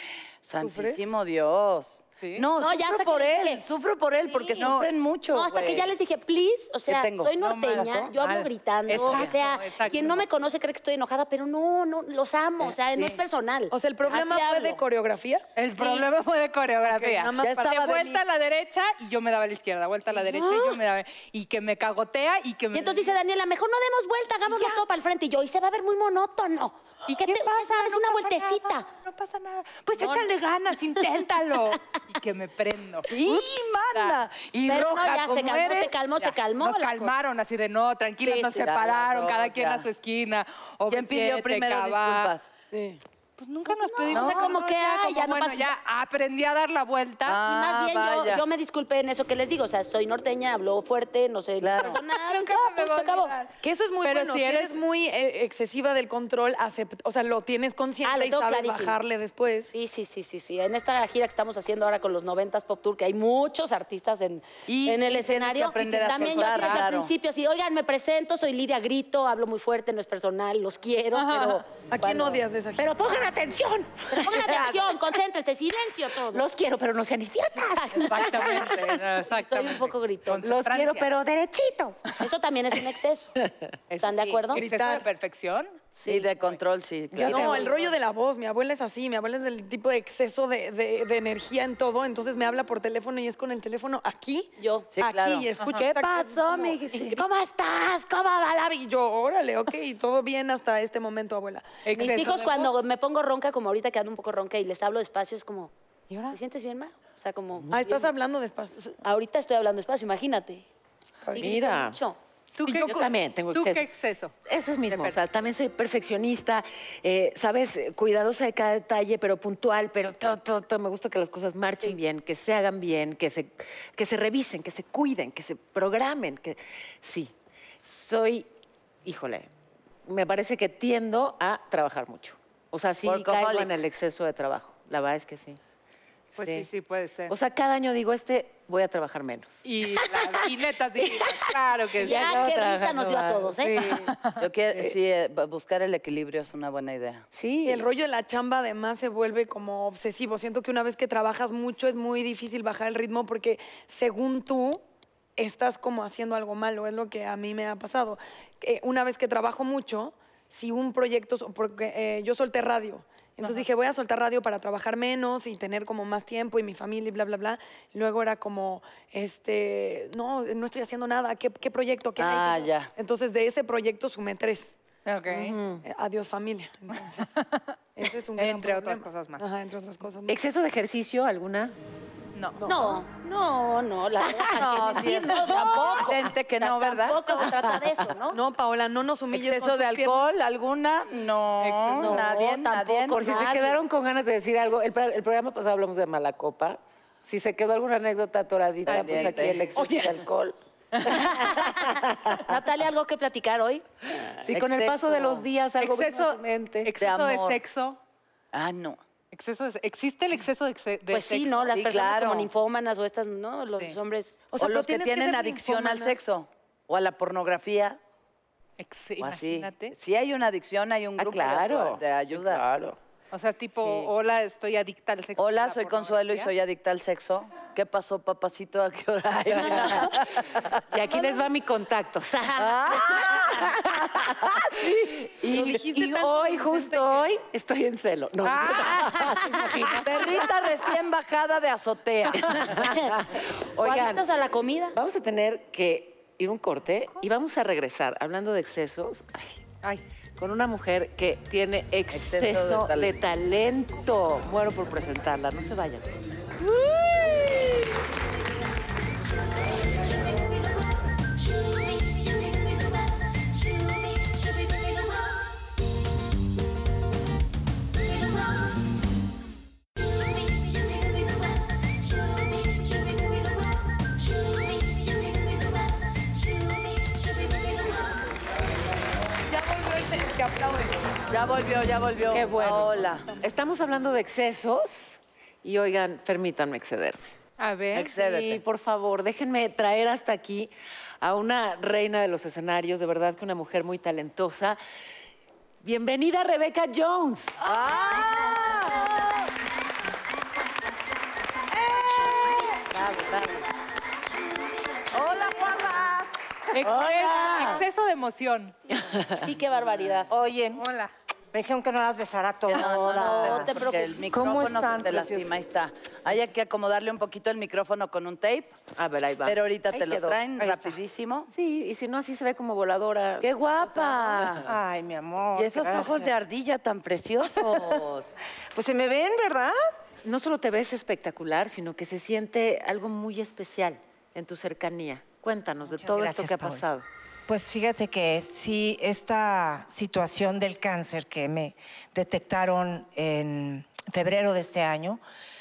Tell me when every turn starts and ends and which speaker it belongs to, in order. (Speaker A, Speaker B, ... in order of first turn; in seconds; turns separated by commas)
Speaker A: 0.4-5.9, Speaker B: 0.6-1.0, Speaker C: 2.2-2.5, Speaker D: 2.6-3.6, Speaker D: 4.3-4.7, Speaker B: 4.6-4.9, Speaker D: 5.3-14.8, Speaker A: 6.9-7.4, Speaker C: 7.4-10.3, Speaker B: 9.0-9.2, Speaker B: 13.7-16.0, Speaker C: 15.6-23.1, Speaker B: 16.8-17.7, Speaker A: 17.4-18.2, Speaker D: 20.2-20.8, Speaker D: 22.7-28.9, Speaker C: 24.5-24.8, Speaker C: 27.1-34.2, Speaker A: 33.1-35.9, Speaker D: 34.6-37.1, Speaker C: 36.2-42.3, Speaker D: 38.2-38.7, Speaker A: 38.5-39.9, Speaker A: 40.9-42.5, Speaker B: 42.7-43.0, Speaker C: 43.4-47.4, Speaker D: 43.6-45.7, Speaker A: 44.1-44.5, Speaker A: 47.2-48.4, Speaker D: 47.4-53.4, Speaker A: 51.6-52.0, Speaker C: 51.8-54.8, Speaker B: 53.6-59.7, Speaker D: 58.0-59.0, Speaker D: 59.7-72.4, Speaker A: 64.7-67.1, Speaker C: 66.1-66.9, Speaker C: 71.1-71.6, Speaker B: 71.9-72.9, Speaker E: 72.8-75.0, Speaker D: 74.1-76.4, Speaker E: 76.3-78.9, Speaker D: 77.8-80.5, Speaker C: 77.9-81.1, Speaker E: 80.4-82.0, Speaker D: 82.2-83.3, Speaker C: 83.9-85.9, Speaker D: 84.0-84.7, Speaker B: 84.5-85.0, Speaker D: 86.0-86.3, Speaker A: 86.1-87.7, Speaker E: 87.1-87.6, Speaker B: 87.3-102.3, Speaker D: 94.6-94.9, Speaker A: 94.9-95.5, Speaker C: 95.6-95.9, Speaker A: 96.2-97.2, Speaker D: 96.9-97.6, Speaker C: 101.8-102.8, Speaker D: 101.9-105.7, Speaker C: 106.1-106.4, Speaker D: 106.3-108.1, Speaker B: 107.7-109.0, Speaker D: 109.0-110.7, Speaker D: 111.3-112.2, Speaker E: 111.3-112.0, Speaker C: 112.5-114.3, Speaker E: 112.6-113.9, Speaker E: 114.5-127.3, Speaker C: 114.9-115.2, Speaker E: 127.8-128.5, Speaker E: 129.0-129.5, Speaker E: 130.1-135.6, Speaker A: 133.0-133.7, Speaker C: 136.3-137.3, Speaker E: 136.4-136.7, Speaker E: 137.3-140.4, Speaker C: 139.6-142.4, Speaker E: 141.0-144.1, Speaker D: 142.0-144.0, Speaker C: 143.9-144.9, Speaker A: 144.4-147.3, Speaker E: 147.3-147.8, Speaker B: 147.6-154.8, Speaker B: 155.4-174.7, Speaker A: 172.2-172.9, Speaker C: 175.1-175.6, Speaker E: 175.3-175.8, Speaker B: 175.8-177.2, Speaker C: 177.2-177.7, Speaker B: 177.9-180.4, Speaker C: 178.4-179.4, Speaker E: 180.3-181.7, Speaker C: 182.3-183.0, Speaker D: 182.6-188.4, Speaker E: 184.2-184.6, Speaker A: 184.5-187.8, Speaker E: 185.7-186.3, Speaker B: 188.3-190.2, Speaker A: 189.3-193.5, Speaker C: 191.6-192.3, Speaker D: 191.9-193.8, Speaker E: 193.1-202.4, Speaker A: 198.9-199.6, Speaker C: 198.9-200.1, Speaker C: 200.9-201.7, Speaker D: 201.1-203.8, Speaker E: 204.3-206.9, Speaker A: 204.5-205.5, Speaker C: 205.8-208.0, Speaker A: 207.0-207.6, Speaker A: 208.5-209.0, Speaker C: 209.3-211.7, Speaker D: 211.1-214.4, Speaker A: 211.7-212.5, Speaker B: 214.5-215.9, Speaker A: 214.6-218.0, Speaker C: 215.8-216.1, Speaker C: 218.8-219.9, Speaker A: 219.2-222.6, Speaker E: 221.2-223.0, Speaker C: 223.3-226.5, Speaker A: 223.8-224.1, Speaker A: 225.4-230.6, Speaker E: 229.6-230.2, Speaker E: 230.9-240.5, Speaker A: 232.5-234.7, Speaker C: 235.4-237.2, Speaker C: 238.4-240.4, Speaker A: 240.0-242.9, Speaker E: 242.4-244.2, Speaker D: 243.8-244.9, Speaker E: 244.9-249.6, Speaker E: 250.4-256.0, Speaker A: 252.1-253.1, Speaker E: 256.8-257.5, Speaker B: 279.5-281.0, Speaker A: 281.3-283.3, Speaker C: 282.3-282.8, Speaker B: 282.4-282.9, Speaker E: 283.4-287.3, Speaker C: 287.6-288.1, Speaker A: 287.9-288.6, Speaker E: 288.1-290.7, Speaker E: 291.2-294.8, Speaker E: 295.8-297.6, Speaker A: 297.6-298.5, Speaker F: 297.6-299.3, Speaker F: 301.9-302.6, Speaker A: 302.8-303.6, Speaker F: 305.1-306.6, Speaker C: 306.7-308.7, Speaker A: 306.8-307.8, Speaker D: 306.9-307.8, Speaker D: 309.4-310.3, Speaker F: 310.3-310.8, Speaker C: 310.8-311.1, Speaker F: 311.5-315.6, Speaker A: 312.7-318.8, Speaker D: 312.8-314.2, Speaker E: 318.9-320.4, Speaker A: 319.4-321.5, Speaker F: 320.6-321.0, Speaker E: 321.5-324.7, Speaker A: 323.4-324.7, Speaker F: 324.6-326.3, Speaker A: 325.6-328.3, Speaker F: 327.5-328.0, Speaker F: 328.7-329.8, Speaker E: 330.2-337.0, Speaker F: 335.9-336.8, Speaker F: 337.5-345.2